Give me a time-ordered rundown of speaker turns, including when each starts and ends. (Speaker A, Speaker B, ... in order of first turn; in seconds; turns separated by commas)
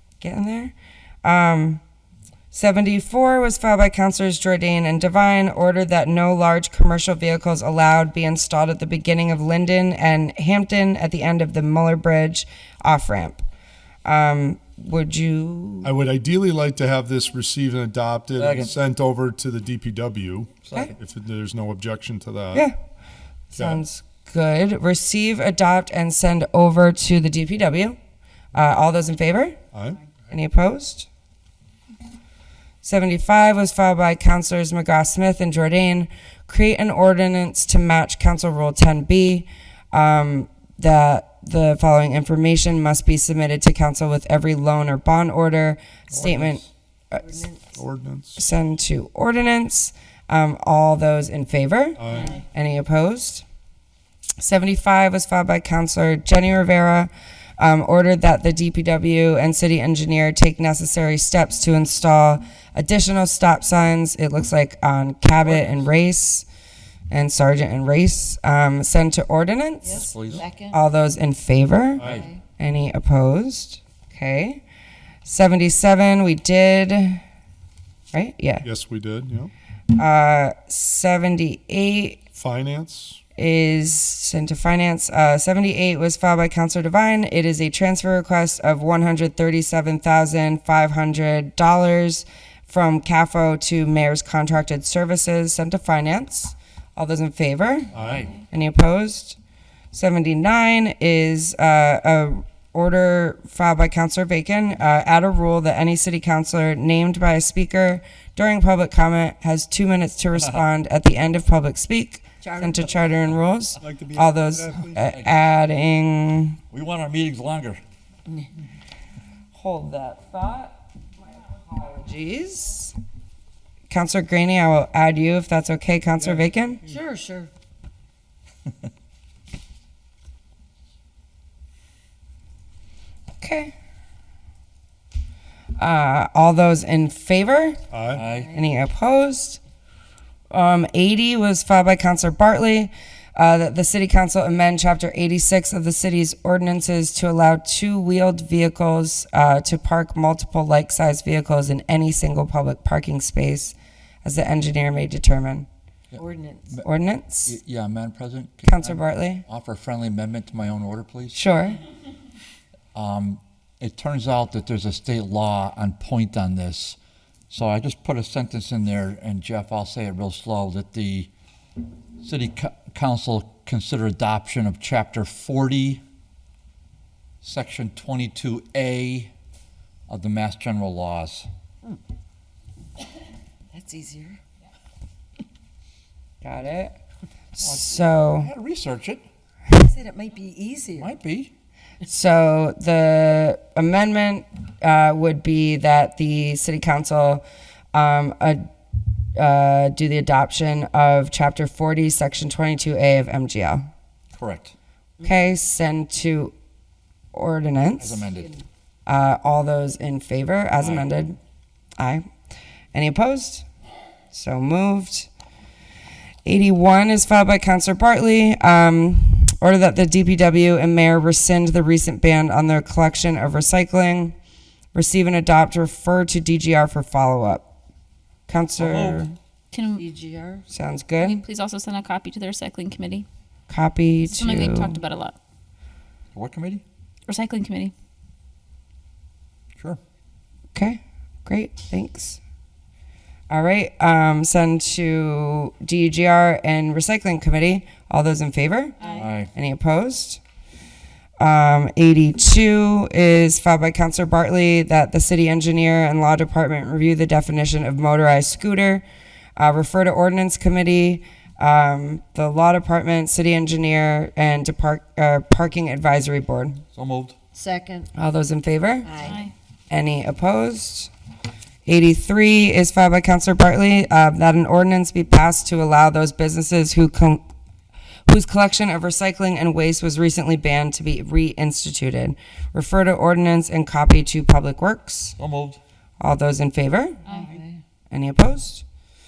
Speaker A: 0.2-0.7, Speaker A: 1.2-1.8, Speaker A: 2.5-13.4, Speaker A: 14.0-15.9, Speaker B: 15.8-22.6, Speaker C: 18.4-18.8, Speaker C: 20.6-20.9, Speaker A: 23.5-28.0, Speaker B: 23.5-23.8, Speaker A: 28.5-29.6, Speaker B: 29.7-30.1, Speaker A: 30.3-31.1, Speaker A: 32.8-47.4, Speaker C: 46.2-46.4, Speaker D: 47.2-47.7, Speaker B: 47.7-48.4, Speaker A: 48.4-53.4, Speaker B: 52.0-52.3, Speaker A: 54.4-66.5, Speaker B: 65.5-65.8, Speaker A: 67.1-70.1, Speaker D: 69.8-70.8, Speaker C: 69.9-70.4, Speaker A: 70.7-74.6, Speaker B: 72.0-72.3, Speaker D: 72.1-72.4, Speaker A: 75.2-77.2, Speaker A: 78.1-78.7, Speaker B: 78.6-79.5, Speaker A: 79.9-82.2, Speaker B: 82.3-83.2, Speaker A: 83.3-97.9, Speaker B: 97.9-98.3, Speaker C: 98.0-98.3, Speaker A: 98.5-99.4, Speaker A: 99.9-116.6, Speaker D: 112.4-112.9, Speaker B: 113.9-114.9, Speaker C: 115.1-115.4, Speaker C: 116.7-117.8, Speaker A: 119.5-120.7, Speaker A: 121.5-123.0, Speaker A: 123.9-126.8, Speaker B: 126.4-127.0, Speaker D: 126.9-127.5, Speaker A: 133.4-133.7, Speaker A: 135.8-137.8, Speaker B: 137.9-138.3, Speaker C: 138.1-138.5, Speaker A: 138.5-139.6, Speaker A: 140.5-155.7, Speaker C: 156.1-156.9, Speaker D: 156.2-156.7, Speaker A: 156.8-157.5, Speaker C: 157.4-161.4, Speaker A: 158.6-159.4, Speaker A: 161.3-161.8, Speaker C: 162.9-167.0, Speaker C: 167.5-171.3, Speaker C: 172.2-176.0, Speaker C: 177.4-179.3, Speaker C: 180.1-181.5, Speaker D: 183.7-184.4, Speaker A: 186.4-186.9, Speaker A: 187.5-188.5, Speaker C: 187.6-189.2, Speaker D: 189.8-191.1, Speaker C: 190.9-191.5, Speaker A: 192.0-198.7, Speaker A: 199.3-203.9, Speaker C: 204.3-204.7, Speaker A: 205.2-206.5, Speaker A: 207.3-208.2, Speaker C: 208.0-208.6, Speaker A: 209.1-211.4, Speaker C: 210.8-211.1, Speaker A: 212.0-212.2, Speaker A: 212.9-213.7, Speaker A: 214.3-215.3, Speaker A: 216.4-224.3, Speaker A: 224.9-227.7, Speaker A: 228.5-229.3, Speaker C: 228.8-229.3, Speaker E: 229.7-230.0, Speaker D: 229.9-230.6, Speaker A: 230.7-231.4, Speaker E: 231.2-233.2, Speaker A: 233.7-235.0, Speaker E: 234.4-235.4, Speaker C: 236.3-236.8, Speaker E: 237.3-237.9, Speaker A: 240.7-242.4, Speaker A: 243.5-248.9, Speaker E: 249.0-249.3, Speaker C: 249.1-249.5, Speaker A: 249.5-250.4, Speaker A: 251.4-259.0, Speaker A: 259.6-266.8, Speaker C: 266.9-267.4, Speaker D: 267.5-268.1, Speaker A: 268.1-269.1, Speaker D: 269.0-269.4, Speaker E: 269.2-269.5, Speaker A: 269.9-271.1, Speaker A: 271.9-277.4, Speaker A: 278.3-285.4, Speaker C: 285.4-285.8, Speaker A: 286.2-287.2, Speaker E: 287.3-287.6, Speaker D: 287.3-287.8, Speaker A: 288.1-288.8